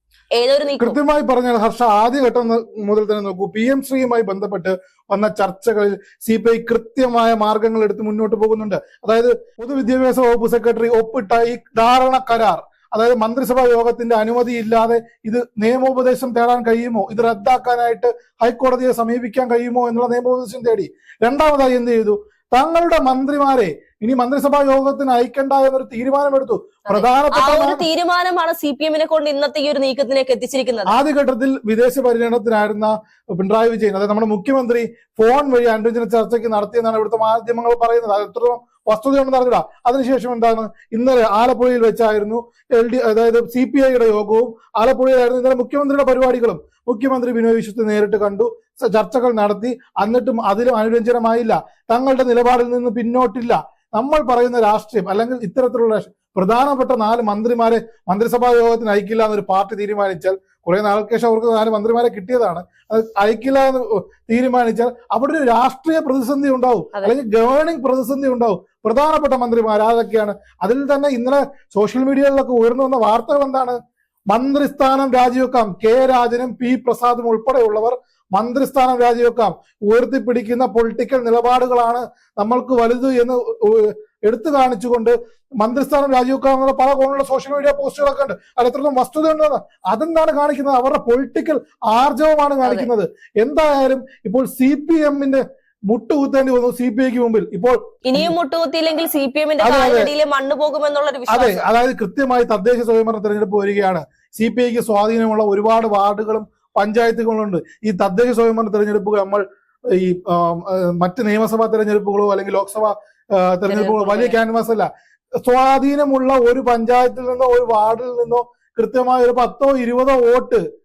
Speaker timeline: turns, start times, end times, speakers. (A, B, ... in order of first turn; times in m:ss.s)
0:00.4-0:01.0 A
0:00.8-0:27.8 B
0:26.8-0:30.9 A
0:30.9-1:13.8 B
1:14.3-1:38.3 B
1:32.6-1:32.9 A
1:38.0-1:41.7 A
1:39.6-1:40.1 B
1:41.3-1:54.9 B
1:53.7-1:54.4 A
1:55.4-2:00.6 B